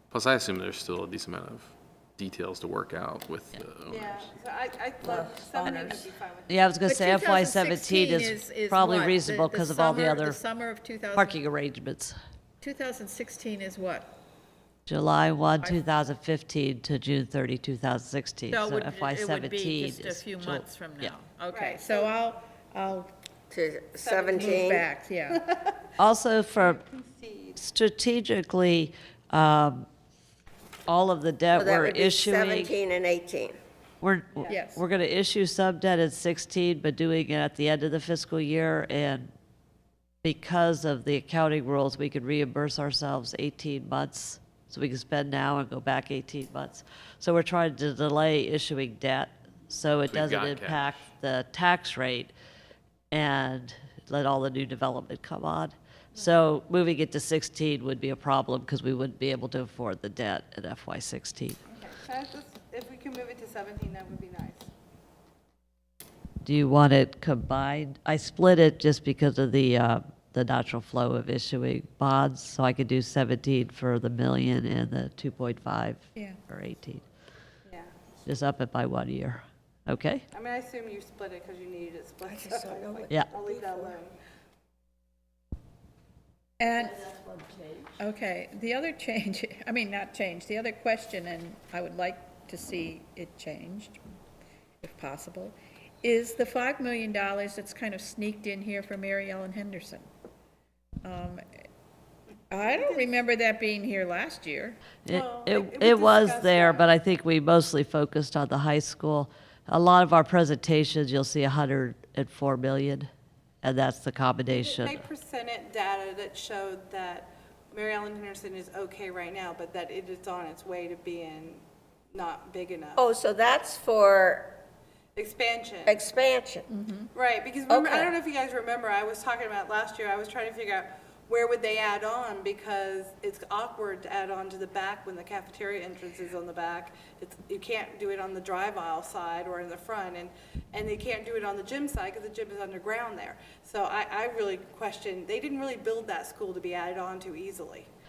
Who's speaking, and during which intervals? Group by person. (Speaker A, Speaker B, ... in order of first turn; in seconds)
Speaker A: 0.1-4.3, 50.0-51.1
Speaker B: 3.9-6.5, 21.5-22.1, 24.0-24.8, 26.6-27.6, 61.7-64.7, 80.3-84.2, 102.5-103.1, 105.1-106.9, 114.5-123.0, 125.2-126.0, 127.1-147.9
Speaker C: 5.0-6.1, 23.5-24.9, 31.5-33.6, 82.3-84.0, 86.7-88.0, 123.0-124.6, 125.9-126.7, 127.7-128.2
Speaker D: 6.5-10.4, 11.1-12.2, 14.9-21.1, 26.0-26.8, 27.6-29.9, 30.9-32.8, 34.0-39.3, 40.2-52.3, 53.1-61.6, 66.4-77.0, 78.3-80.2, 105.1-113.1, 113.6-115.0
Speaker E: 6.8-11.4, 12.6-14.1, 18.5-23.1, 24.4-25.5, 34.5-34.8, 86.6-87.1, 88.0-94.0, 94.8-100.1, 101.0-101.4, 102.5-104.8, 126.7-127.1